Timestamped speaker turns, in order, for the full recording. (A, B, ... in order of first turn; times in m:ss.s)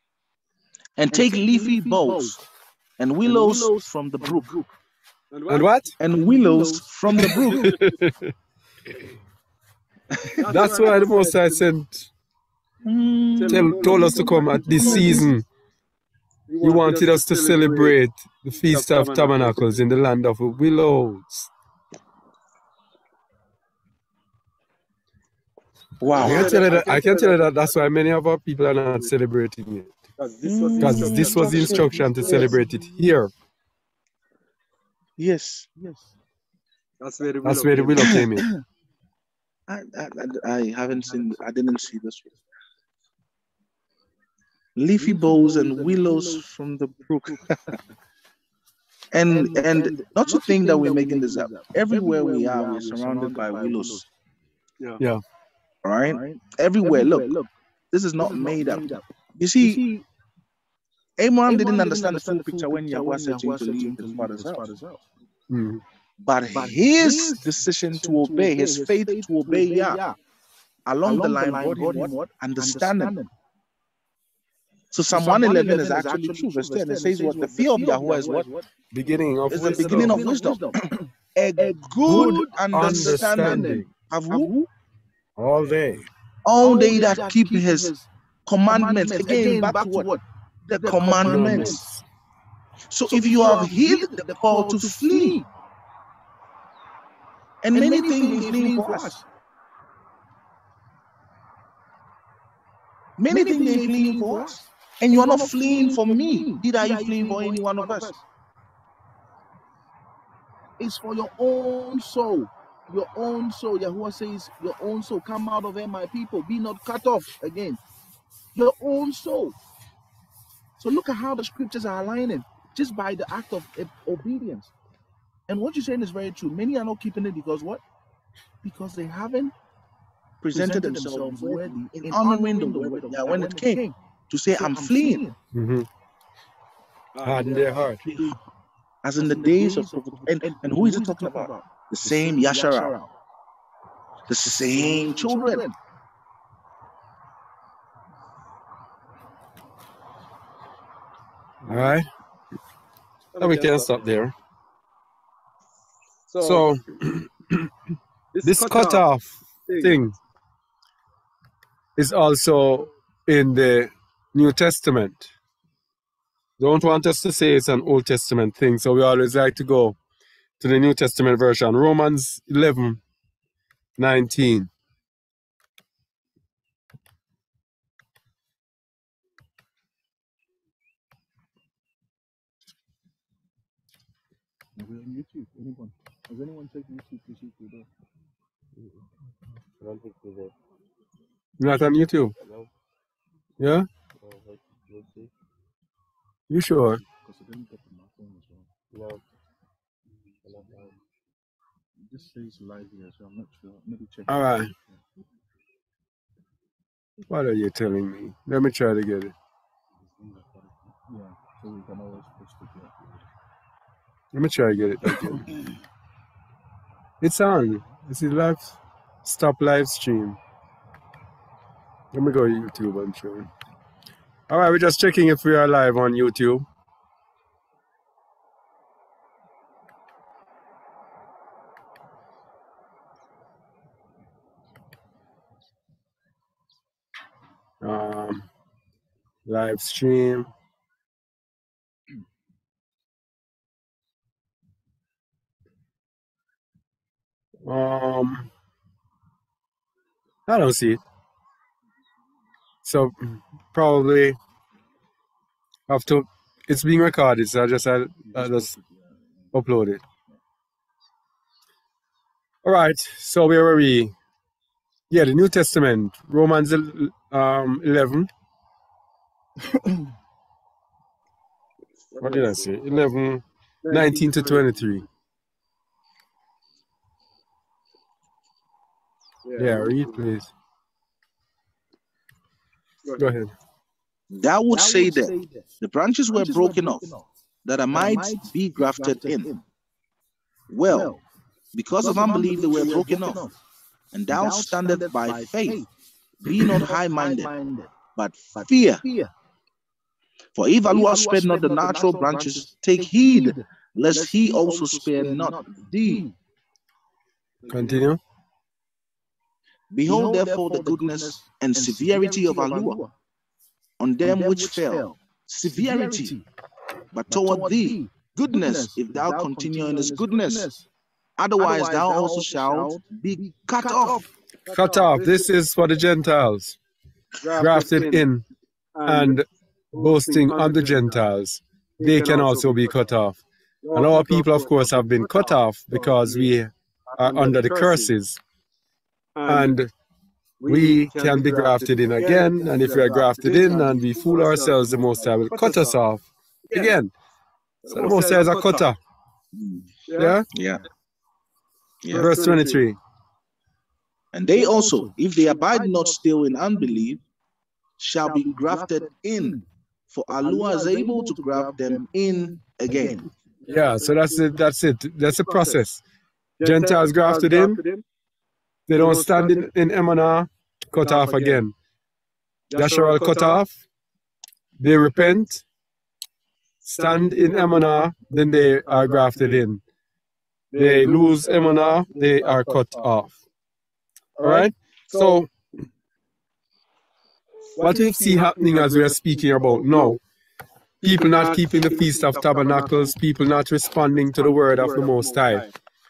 0:01.0-0:02.4 A
0:01.1-0:02.4 B
0:03.0-0:04.5 A
0:03.2-0:04.7 B
0:05.3-0:05.7 C
0:05.5-0:05.9 D
0:06.0-0:07.7 A
0:06.1-0:07.8 B
0:07.2-0:08.3 D
0:10.4-0:11.7 C
0:10.5-0:12.1 D
0:12.8-0:15.3 A
0:13.4-0:15.2 C
0:13.5-0:15.4 D
0:14.8-0:15.2 B
0:16.5-0:18.0 C
0:16.6-0:21.5 D
0:18.6-0:19.8 C
0:26.0-0:26.8 A
0:26.2-0:27.8 C
0:26.2-0:29.9 D
0:30.2-0:32.4 C
0:30.4-0:32.6 A
0:30.8-0:33.3 D
0:31.9-0:33.0 B
0:35.2-0:35.7 A
0:35.8-0:36.1 B
0:37.0-0:38.3 C
0:37.4-0:38.4 D
0:38.0-0:38.3 A
0:39.7-0:42.4 A
0:40.9-0:41.5 B
0:44.8-0:47.7 A
0:45.0-0:46.5 B
0:47.2-0:47.8 B
0:49.1-0:54.0 A
0:49.2-0:54.1 B
0:55.8-0:57.3 A
0:56.0-0:57.5 B
0:57.9-0:59.8 A
0:58.2-0:59.0 B
0:59.6-1:00.1 B
1:01.2-1:04.6 A
1:01.4-1:05.0 B
1:05.5-1:05.8 D
1:06.2-1:10.0 A
1:06.5-1:10.2 B
1:10.8-1:13.1 A
1:11.0-1:13.3 B
1:14.9-1:18.5 A
1:15.1-1:18.7 B
1:18.9-1:20.2 D
1:19.5-1:24.5 A
1:19.6-1:24.7 B
1:22.0-1:23.9 D
1:25.4-1:26.1 D
1:26.4-1:27.9 A
1:26.6-1:28.1 B
1:28.4-1:30.1 A
1:28.7-1:31.8 B
1:30.7-1:31.8 A
1:31.2-1:32.0 D
1:32.9-1:35.4 A
1:33.1-1:35.5 B
1:37.6-1:39.1 A
1:37.7-1:39.3 B
1:43.2-1:48.1 A
1:43.3-1:48.2 B
1:50.8-1:57.8 B
1:58.5-1:59.6 B
2:00.8-2:04.7 B
2:05.5-2:07.8 B
2:08.6-2:09.5 B
2:10.4-2:15.2 A
2:10.5-2:14.0 B
2:14.5-2:15.4 B
2:15.5-2:15.9 D
2:17.1-2:17.9 C
2:17.2-2:18.0 D
2:18.0-2:18.4 B
2:19.0-2:22.9 A
2:19.2-2:23.1 B
2:24.3-2:25.6 A
2:24.4-2:25.8 B
2:31.6-2:31.9 C
2:31.6-2:32.0 D
2:33.3-2:34.0 C
2:33.4-2:34.3 D
2:36.3-2:36.6 C
2:36.4-2:37.7 D
2:38.3-2:39.0 C
2:38.4-2:40.2 D
2:39.6-2:40.0 C
2:42.0-2:45.3 D
2:46.6-2:50.0 D
2:50.6-2:53.0 D
2:54.0-2:54.7 D
3:04.8-3:07.9 B
3:09.8-3:10.5 C
3:11.6-3:12.3 D
3:12.4-3:12.7 C
3:13.6-3:13.9 D
3:14.2-3:15.3 C
3:16.5-3:17.0 D
3:17.1-3:18.7 B
3:18.9-3:19.2 C
3:20.4-3:21.0 C
3:22.0-3:25.0 B
3:24.3-3:24.7 D
3:27.3-3:29.3 D
3:31.1-3:33.0 B
3:34.3-3:35.5 D
3:37.2-3:40.4 D
3:42.1-3:43.5 D
3:44.5-3:46.6 D
3:57.8-3:58.5 D
3:59.4-4:00.5 D
4:07.6-4:08.5 D
4:10.5-4:11.0 D
4:12.8-4:14.4 D
4:15.9-4:18.7 D
4:18.3-4:19.5 B
4:19.5-4:20.0 D
4:22.6-4:24.1 D
4:25.1-4:28.3 D
4:32.1-4:33.0 C
4:32.2-4:35.0 D
4:33.8-4:35.0 C
4:39.4-4:40.2 C
4:39.6-4:40.5 D
4:43.0-4:43.3 C
4:43.2-4:43.5 D
4:44.3-4:47.1 A
4:44.7-4:45.7 B
4:46.3-4:47.3 B
4:47.6-4:49.5 A
4:47.9-4:49.6 B
4:50.7-4:51.1 A
4:50.9-4:51.2 B
4:51.7-4:53.4 A
4:52.0-4:53.6 B
4:54.1-4:55.8 A
4:54.3-4:55.9 B
4:56.4-4:57.5 A
4:56.6-4:58.0 B
4:58.1-4:59.0 A
4:58.5-4:59.3 B
5:00.6-5:05.6 A
5:00.8-5:06.4 B
5:07.7-5:08.2 D
5:07.7-5:08.0 B
5:09.9-5:13.0 A
5:10.0-5:13.1 B
5:14.0-5:16.4 A
5:14.2-5:15.2 B
5:15.7-5:16.4 B
5:17.1-5:20.7 A
5:17.3-5:20.8 B
5:21.4-5:24.2 A
5:21.6-5:24.3 B
5:24.6-5:25.5 C
5:24.7-5:26.8 D
5:27.4-5:28.2 C
5:27.6-5:28.4 D
5:29.0-5:29.4 C
5:29.0-5:33.4 D
5:29.9-5:31.3 C
5:32.0-5:33.1 C
5:33.8-5:36.5 C
5:33.9-5:38.4 D
5:37.1-5:38.1 C
5:39.3-5:39.8 C
5:39.5-5:39.9 D
5:40.6-5:46.0 C
5:40.7-5:47.1 D
5:46.7-5:46.9 C
5:47.8-5:48.9 C
5:47.9-5:49.0 D
5:49.5-5:49.9 A
5:50.1-5:50.4 C
5:50.2-5:50.4 D
5:50.5-5:50.8 A
5:52.0-5:52.3 A
5:52.1-5:52.9 C
5:52.1-5:53.0 D
5:54.3-5:57.2 A
5:54.5-5:56.2 B
5:58.0-5:59.6 A
5:58.2-5:59.6 B
6:00.1-6:03.2 A
6:00.3-6:02.0 B
6:02.9-6:03.3 B
6:03.6-6:04.6 C
6:03.7-6:06.0 D
6:05.2-6:05.8 C
6:06.6-6:08.0 C
6:06.6-6:07.8 D
6:08.9-6:11.7 D
6:09.0-6:09.7 C
6:11.0-6:11.6 C
6:12.7-6:13.6 C
6:12.7-6:13.7 D
6:14.8-6:15.6 D
6:16.8-6:19.8 D
6:17.0-6:18.0 C
6:18.8-6:19.6 C
6:20.7-6:23.1 C
6:20.8-6:23.4 D
6:24.4-6:25.4 C
6:24.4-6:25.5 D
6:27.8-6:30.2 C
6:27.8-6:30.2 D
6:31.0-6:33.2 C
6:31.0-6:35.6 D
6:34.3-6:35.7 C